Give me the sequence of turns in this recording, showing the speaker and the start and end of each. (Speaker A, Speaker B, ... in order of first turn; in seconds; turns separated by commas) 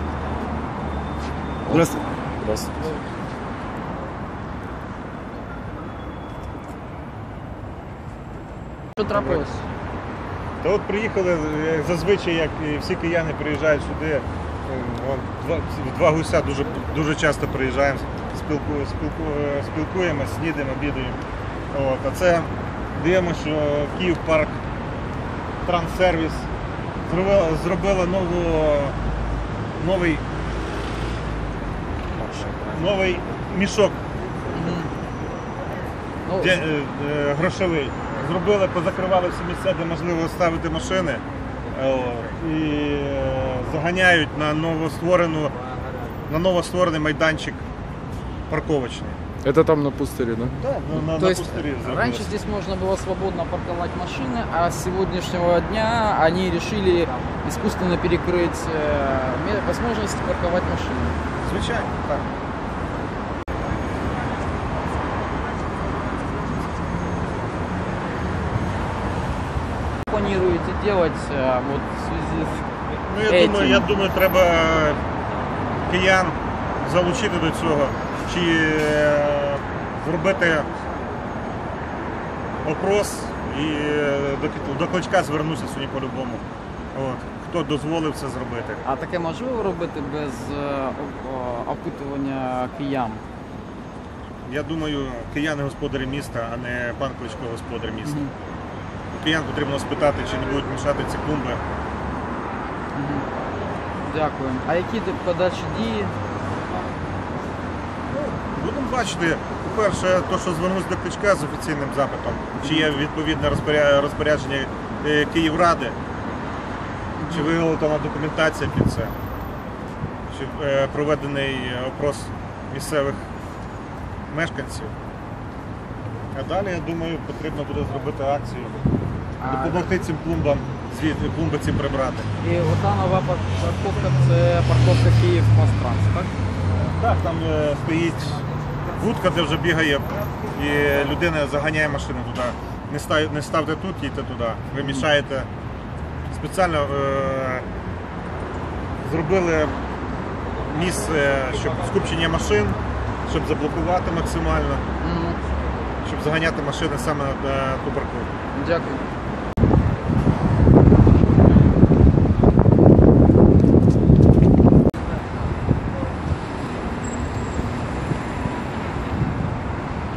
Speaker A: 1.7-2.7, Speaker B: 9.0-9.6, Speaker C: 9.1-9.5, Speaker C: 10.6-21.2, Speaker C: 21.7-24.6, Speaker C: 25.6-26.5, Speaker C: 27.1-28.9, Speaker C: 29.8-30.2, Speaker C: 32.2-34.0, Speaker B: 34.5-34.9, Speaker B: 36.2-36.6, Speaker C: 36.4-45.5, Speaker C: 46.3-47.6, Speaker C: 48.5-49.2, Speaker A: 49.4-50.6, Speaker C: 50.6-52.3, Speaker B: 51.1-61.2, Speaker C: 61.4-62.3, Speaker B: 70.1-72.7, Speaker C: 73.1-75.0, Speaker B: 73.2-73.9, Speaker C: 75.8-80.7, Speaker C: 82.6-86.4, Speaker C: 86.9-88.8, Speaker B: 88.8-93.2, Speaker C: 94.5-98.2, Speaker B: 98.0-98.3, Speaker C: 99.1-101.6, Speaker B: 103.0-103.3, Speaker B: 104.0-106.2, Speaker C: 108.1-116.0, Speaker B: 112.6-112.9, Speaker B: 117.2-117.6, Speaker C: 117.3-119.2, Speaker C: 120.3-123.3, Speaker C: 124.3-125.0, Speaker C: 126.3-128.8, Speaker B: 129.4-129.9, Speaker C: 129.5-132.3, Speaker B: 132.4-136.3, Speaker C: 136.8-138.5, Speaker C: 139.0-145.5, Speaker B: 144.8-145.1, Speaker C: 146.3-147.7, Speaker C: 149.0-149.8, Speaker C: 150.7-154.8, Speaker B: 155.0-155.4, Speaker C: 156.0-158.3, Speaker B: 158.5-159.0